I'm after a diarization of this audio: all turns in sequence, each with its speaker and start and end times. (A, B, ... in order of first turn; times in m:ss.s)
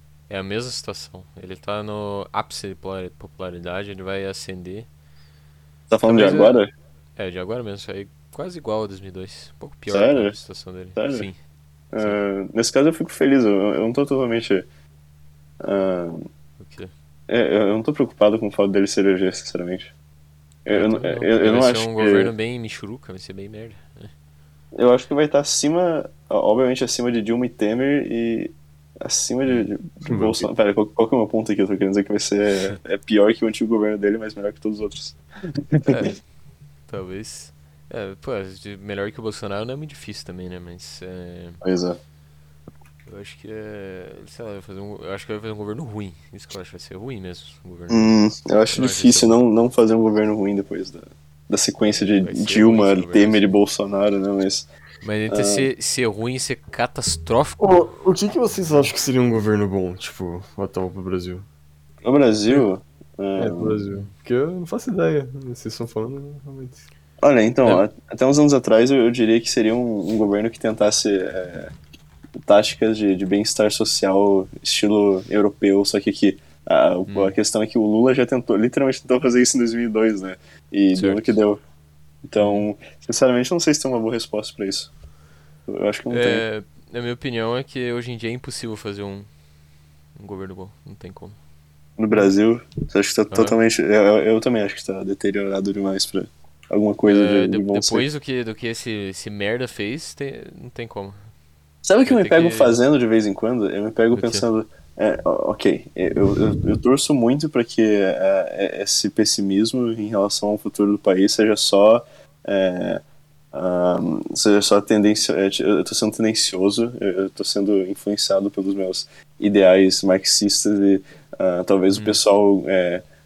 0:00.3-0:04.9 A
0:05.9-0:06.7 B
0:06.0-0:06.6 A
0:07.2-0:11.4 A
0:09.9-0:10.4 B
0:11.0-0:11.3 B
0:11.9-0:14.7 B
0:15.6-0:16.2 B
0:16.6-0:16.9 A
0:17.3-0:19.9 B
0:20.7-0:22.3 B
0:20.7-0:24.1 A
0:24.8-0:36.1 B
0:30.1-0:30.5 C
0:35.9-0:36.2 A
0:36.9-0:41.6 A
0:41.6-0:42.0 B
0:43.1-0:48.1 A
0:47.9-0:54.7 B
0:48.7-0:49.4 A
0:51.9-0:53.5 A
0:55.0-0:57.8 A
0:55.3-0:55.7 B
0:57.6-1:01.5 C
1:02.0-1:03.8 B
1:03.4-1:06.9 C
1:07.2-1:11.7 B
1:12.4-1:21.6 B
1:17.1-1:17.4 A
1:21.0-1:21.4 A
1:22.2-1:24.9 B
1:22.4-1:22.7 A
1:25.7-1:26.4 B
1:26.1-1:29.3 A
1:30.2-1:31.4 A
1:32.0-1:38.0 B
1:33.3-1:33.6 A
1:37.1-1:41.2 A
1:41.8-1:53.0 B
1:42.0-1:42.8 A
1:44.1-1:44.4 A
1:53.5-2:03.0 B